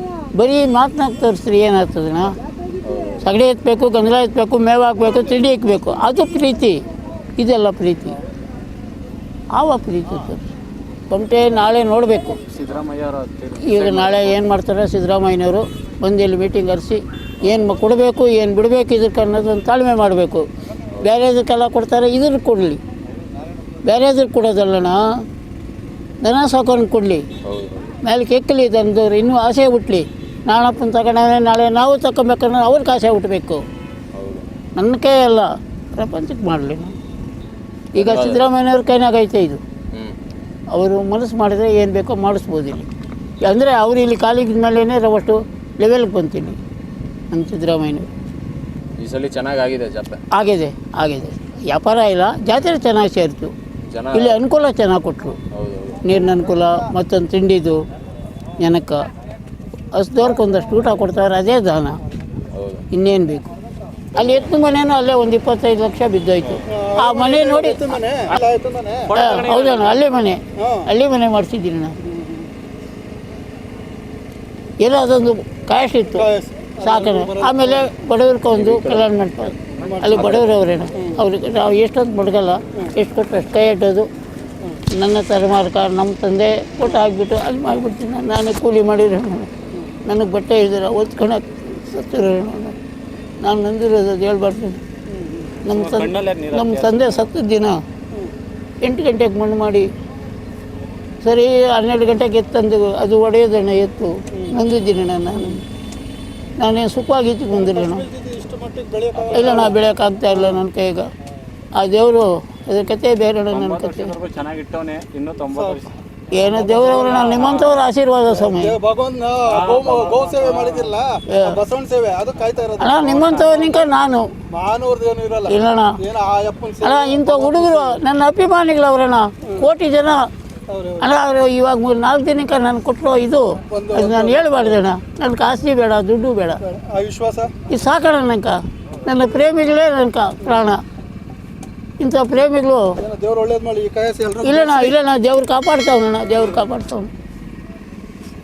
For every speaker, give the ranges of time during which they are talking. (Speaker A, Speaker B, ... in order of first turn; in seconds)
Speaker A: 0.3-2.4, 3.2-6.8, 7.4-8.2, 9.5-10.5, 11.1-12.4, 13.6-20.4, 21.0-22.8, 23.8-25.0, 26.2-27.3, 28.0-33.6, 34.8-37.0, 38.0-39.6, 40.7-42.9, 43.4-46.6, 47.3-48.1, 50.3-53.5, 54.1-55.4, 56.0-57.8, 58.6-59.0, 59.9-62.0, 62.9-63.5, 64.2-68.0, 69.1-72.0, 74.8-84.1, 84.9-89.5, 90.0-92.8, 93.4-94.8, 95.7-97.8, 98.8-99.9, 101.2-105.6, 106.6-108.1, 109.3-111.1, 111.8-114.1, 116.3-118.8, 121.3-121.6, 122.8-124.3, 125.5-126.0, 126.8-130.3, 131.0-136.6, 137.7-140.8, 142.0-142.9, 144.4-147.1
Speaker B: 2.8-3.3, 27.4-27.9, 34.1-34.5, 38.0-38.5, 49.0-50.2, 53.8-54.4, 55.5-56.0, 62.5-62.9, 64.2-64.5, 78.5-79.1, 80.0-80.7
Speaker C: 12.5-14.4, 69.0-70.0, 95.6-97.3, 113.5-115.9, 117.0-117.8, 119.4-121.0
Speaker D: 66.7-69.1, 70.6-70.9, 72.1-72.4, 76.2-77.9, 79.8-80.2, 95.2-95.5, 107.5-109.8, 116.6-117.4, 118.4-123.9, 124.5-128.0, 130.7-131.1, 133.7-134.8, 136.7-137.5, 143.0-145.0